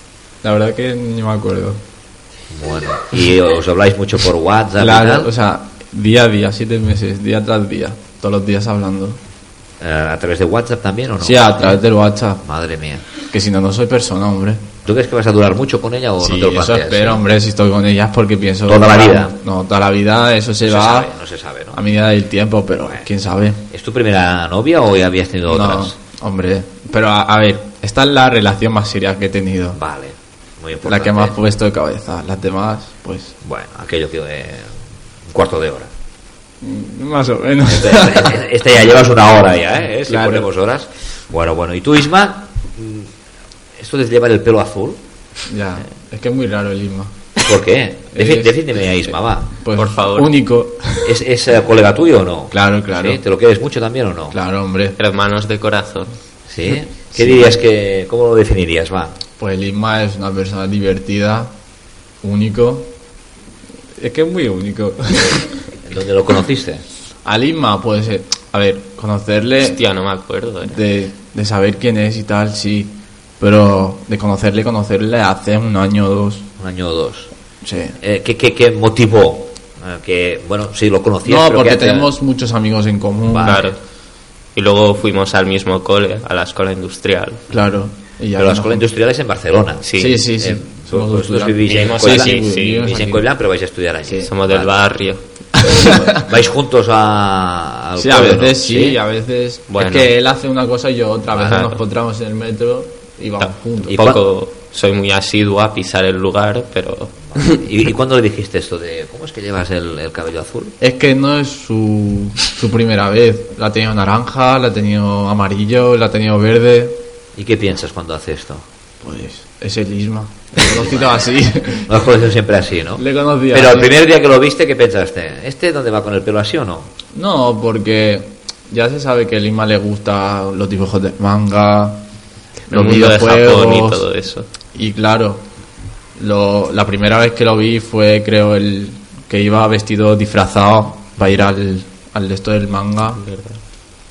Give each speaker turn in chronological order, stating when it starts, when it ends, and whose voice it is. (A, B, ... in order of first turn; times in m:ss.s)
0:00.4-0:01.8 A
0:02.5-0:05.3 B
0:04.8-0:09.2 A
0:09.8-0:11.8 B
0:11.2-0:12.4 A
0:12.4-0:13.0 B
0:13.2-0:14.6 A
0:14.8-0:17.2 B
0:16.2-0:21.1 A
0:18.6-0:19.3 B
0:20.6-0:21.8 B
0:21.7-0:23.7 A
0:23.7-0:26.0 B
0:25.5-0:29.8 A
0:29.7-0:31.3 B
0:30.8-0:33.3 A
0:33.4-0:34.8 B
0:35.3-0:35.9 B
0:36.6-0:38.4 A
0:37.7-0:43.1 B
0:40.0-0:40.5 A
0:43.8-0:45.0 B
0:45.4-0:47.1 A
0:47.4-0:49.5 B
0:48.1-0:51.2 A
0:49.7-0:50.3 C
0:51.0-0:54.4 B
0:52.5-0:53.2 A
0:54.3-0:55.0 A
0:55.0-0:56.1 C
0:56.5-0:59.2 B
0:56.7-0:57.6 A
0:59.4-1:01.5 A
1:02.2-1:02.9 A
1:04.0-1:05.7 A
1:05.8-1:06.8 B
1:07.2-1:09.8 A
1:09.6-1:10.8 C
1:10.6-1:16.5 A
1:16.6-1:17.3 B
1:17.6-1:18.0 A
1:18.0-1:22.1 B
1:21.2-1:23.8 A
1:23.2-1:23.6 B
1:23.4-1:23.8 C
1:24.6-1:27.4 C
1:27.5-1:28.9 A
1:28.4-1:29.8 B
1:29.8-1:30.2 C
1:30.0-1:33.3 A
1:30.4-1:34.8 B
1:31.7-1:32.9 C
1:34.0-1:34.3 A
1:34.2-1:36.1 C
1:35.6-1:36.3 A
1:36.1-1:39.0 B
1:38.0-1:44.0 A
1:39.7-1:40.1 C
1:41.3-1:41.6 B
1:41.4-1:41.8 C
1:43.4-1:47.6 C
1:43.9-1:44.2 B
1:47.3-1:50.7 B
1:50.8-1:57.0 A
1:57.4-1:58.6 B
1:59.0-2:01.9 A
2:00.6-2:01.3 B
2:01.9-2:06.9 B
2:02.9-2:04.0 A
2:07.1-2:12.0 A
2:12.7-2:14.1 A
2:12.7-2:14.5 C
2:14.7-2:15.4 A
2:16.2-2:23.2 A
2:23.2-2:23.6 C